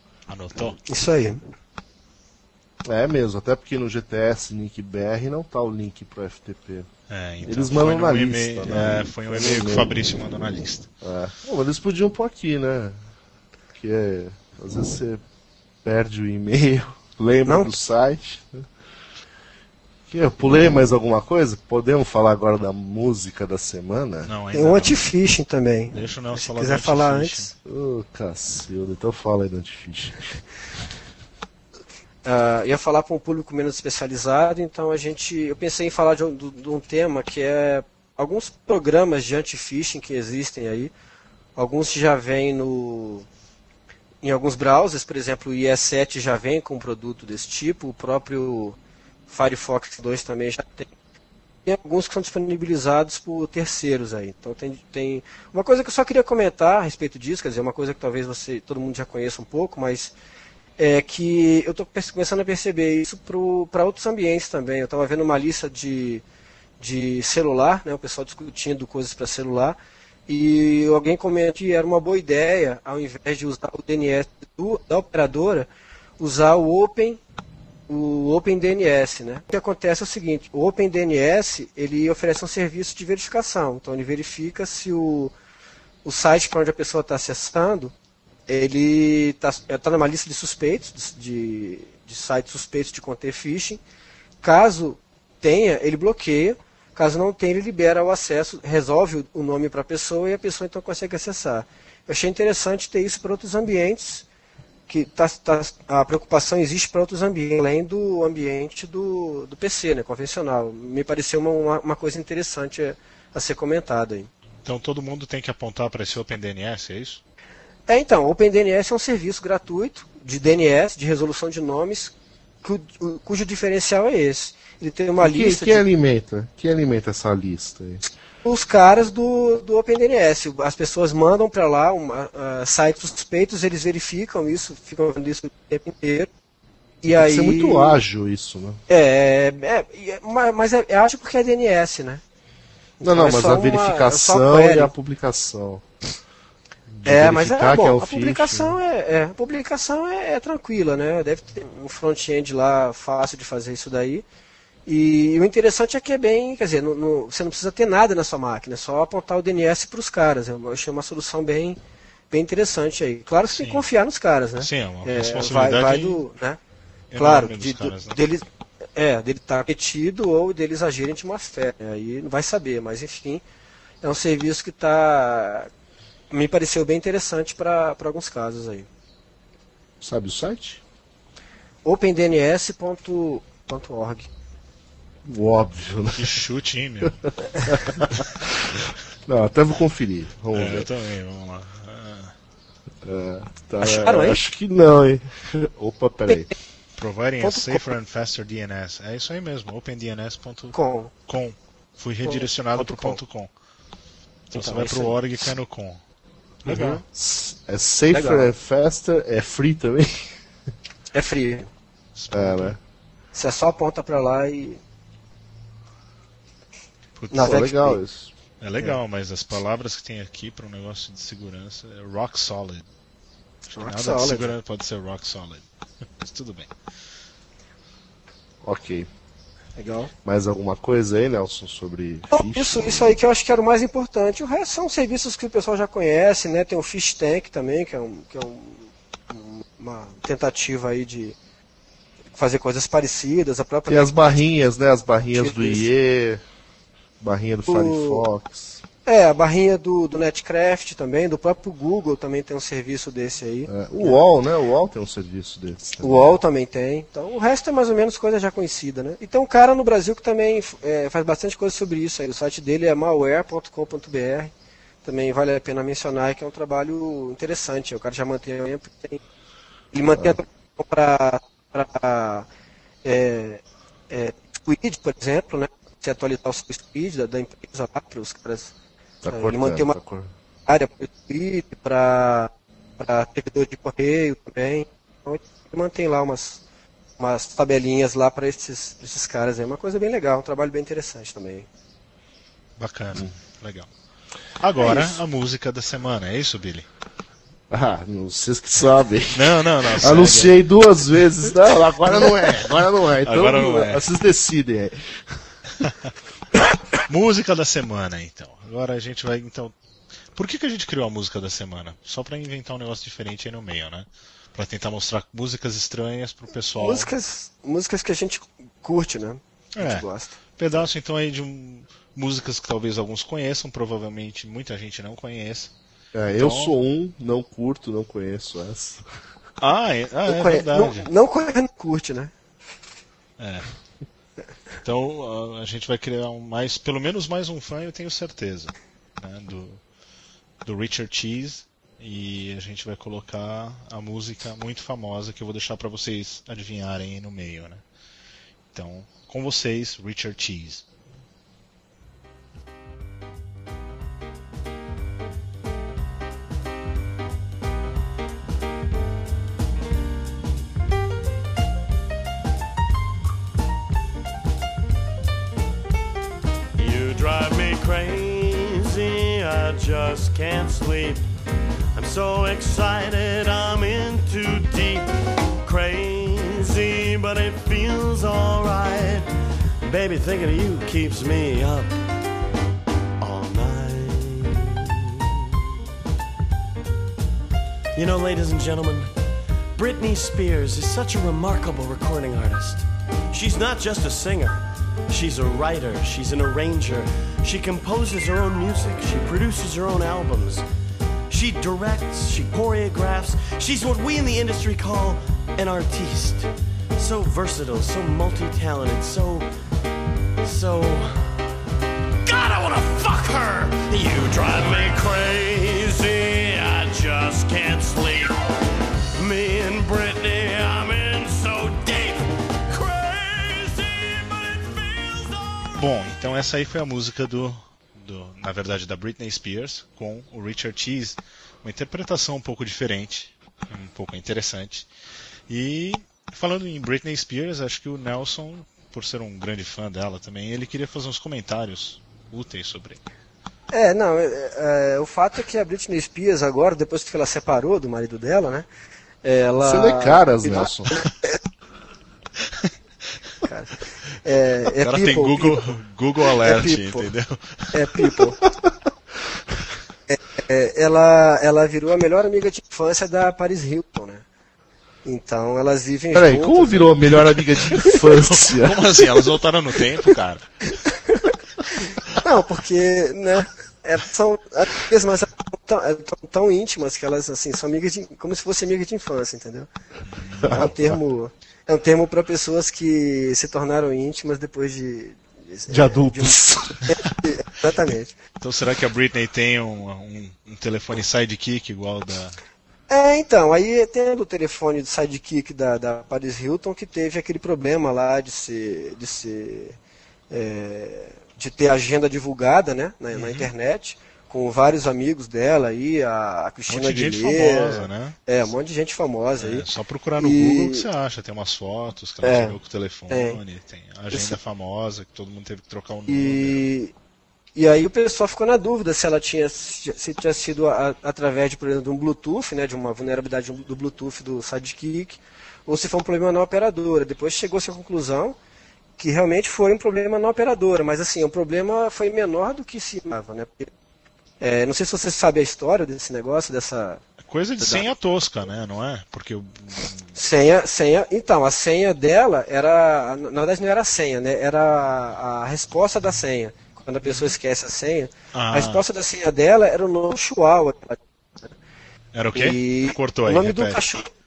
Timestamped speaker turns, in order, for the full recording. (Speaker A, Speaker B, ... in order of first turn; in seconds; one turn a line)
Speaker A: 0.3-0.8
Speaker B: 0.9-1.4
Speaker C: 2.9-6.9
Speaker A: 7.1-10.9
Speaker C: 7.5-9.9
Speaker C: 11.0-13.0
Speaker C: 13.7-15.2
Speaker C: 15.8-18.6
Speaker C: 20.1-24.3
Speaker A: 24.2-25.0
Speaker B: 24.5-27.5
Speaker A: 25.9-27.5
Speaker C: 27.6-30.4
Speaker B: 32.2-40.9
Speaker B: 41.6-43.3
Speaker B: 44.2-48.8
Speaker B: 49.3-50.9
Speaker B: 51.7-60.1
Speaker B: 60.8-66.2
Speaker B: 66.8-69.8
Speaker B: 70.3-75.7
Speaker B: 76.2-77.2
Speaker B: 77.9-85.3
Speaker B: 86.0-87.9
Speaker B: 88.5-93.8
Speaker B: 94.4-104.2
Speaker B: 104.9-114.3
Speaker A: 114.7-117.2
Speaker B: 117.9-125.8
Speaker C: 125.2-128.0
Speaker B: 128.4-136.3
Speaker B: 137.0-138.0
Speaker C: 137.1-138.8
Speaker B: 138.9-142.2
Speaker C: 143.0-145.8
Speaker B: 143.1-144.9
Speaker C: 146.9-148.8
Speaker B: 147.1-154.2
Speaker B: 154.9-161.8
Speaker B: 162.3-166.6
Speaker A: 163.5-163.8
Speaker A: 164.6-166.2
Speaker A: 167.1-168.2
Speaker B: 167.2-173.4
Speaker B: 174.0-175.7
Speaker B: 176.3-178.9
Speaker C: 180.0-180.8
Speaker B: 181.8-184.3
Speaker C: 185.2-186.3
Speaker A: 186.1-187.2
Speaker C: 187.6-190.9
Speaker A: 190.5-192.3
Speaker C: 193.0-196.5
Speaker B: 193.8-194.4
Speaker A: 197.0-200.8
Speaker B: 197.4-197.9
Speaker B: 200.7-201.1
Speaker A: 201.3-203.5
Speaker B: 202.2-203.2
Speaker A: 204.5-206.0
Speaker B: 204.5-205.2
Speaker B: 206.7-207.0
Speaker A: 206.7-207.0
Speaker C: 207.1-210.3
Speaker B: 208.1-208.5
Speaker B: 211.1-211.7
Speaker A: 212.2-212.8
Speaker C: 212.3-212.8
Speaker B: 213.3-214.8
Speaker A: 217.2-217.7
Speaker B: 217.3-218.0
Speaker C: 217.3-218.3
Speaker A: 218.6-222.9
Speaker B: 223.7-224.5
Speaker A: 223.8-225.7
Speaker A: 226.2-226.7
Speaker C: 228.6-229.1
Speaker B: 229.8-230.1
Speaker C: 230.2-233.2
Speaker B: 232.3-241.4
Speaker B: 242.3-244.4
Speaker C: 243.9-246.4
Speaker B: 245.3-245.9
Speaker C: 247.2-248.8
Speaker B: 247.7-248.2
Speaker B: 249.1-254.2
Speaker C: 253.7-256.4
Speaker B: 256.0-264.5
Speaker B: 265.0-269.2
Speaker B: 269.9-272.5
Speaker B: 273.0-278.7
Speaker C: 279.2-280.3
Speaker B: 279.3-280.0
Speaker B: 280.7-286.6
Speaker B: 287.2-291.7
Speaker A: 292.8-293.9
Speaker A: 294.6-296.9
Speaker B: 294.9-295.1
Speaker C: 297.7-305.0
Speaker A: 299.4-300.5
Speaker A: 303.2-304.0
Speaker A: 305.8-306.1
Speaker A: 307.0-309.7
Speaker A: 310.4-317.1
Speaker B: 316.8-320.4
Speaker A: 319.8-325.7
Speaker C: 326.1-329.0
Speaker A: 326.4-326.7
Speaker A: 329.6-331.1
Speaker B: 330.3-332.3
Speaker A: 333.4-333.7
Speaker A: 334.8-339.8
Speaker A: 340.6-347.8
Speaker A: 348.7-350.8
Speaker D: 366.8-371.3
Speaker D: 371.9-375.1
Speaker D: 375.6-379.3
Speaker D: 379.8-382.0
Speaker D: 383.2-385.1
Speaker D: 387.9-389.1
Speaker D: 389.8-400.7
Speaker D: 401.3-409.5
Speaker D: 410.4-411.4
Speaker D: 412.3-418.4
Speaker D: 419.2-425.7
Speaker A: 425.8-434.9
Speaker A: 435.5-443.0
Speaker B: 443.7-448.7
Speaker B: 449.2-451.4
Speaker C: 449.6-450.9
Speaker B: 453.4-455.6
Speaker A: 454.8-457.7
Speaker B: 456.4-457.1
Speaker B: 457.7-458.4
Speaker B: 460.1-464.2
Speaker B: 465.1-467.0
Speaker C: 466.1-468.9
Speaker A: 468.1-470.6
Speaker B: 470.9-471.1
Speaker B: 472.1-479.7
Speaker A: 480.1-480.7
Speaker C: 480.4-481.0
Speaker B: 480.5-488.1
Speaker C: 485.7-487.0
Speaker A: 488.4-492.4
Speaker B: 492.9-499.8
Speaker B: 500.3-509.6
Speaker A: 503.1-503.5
Speaker A: 506.7-508.2
Speaker A: 509.4-516.6
Speaker B: 510.2-510.9
Speaker B: 512.2-512.6
Speaker B: 513.1-513.4
Speaker B: 514.1-514.4
Speaker B: 516.1-516.9
Speaker B: 517.6-528.4
Speaker B: 529.0-533.7
Speaker B: 534.4-537.0
Speaker A: 537.3-540.1
Speaker B: 537.6-537.9
Speaker B: 540.1-551.0
Speaker A: 547.0-547.3
Speaker A: 548.3-548.8
Speaker A: 552.1-553.8
Speaker B: 552.3-554.1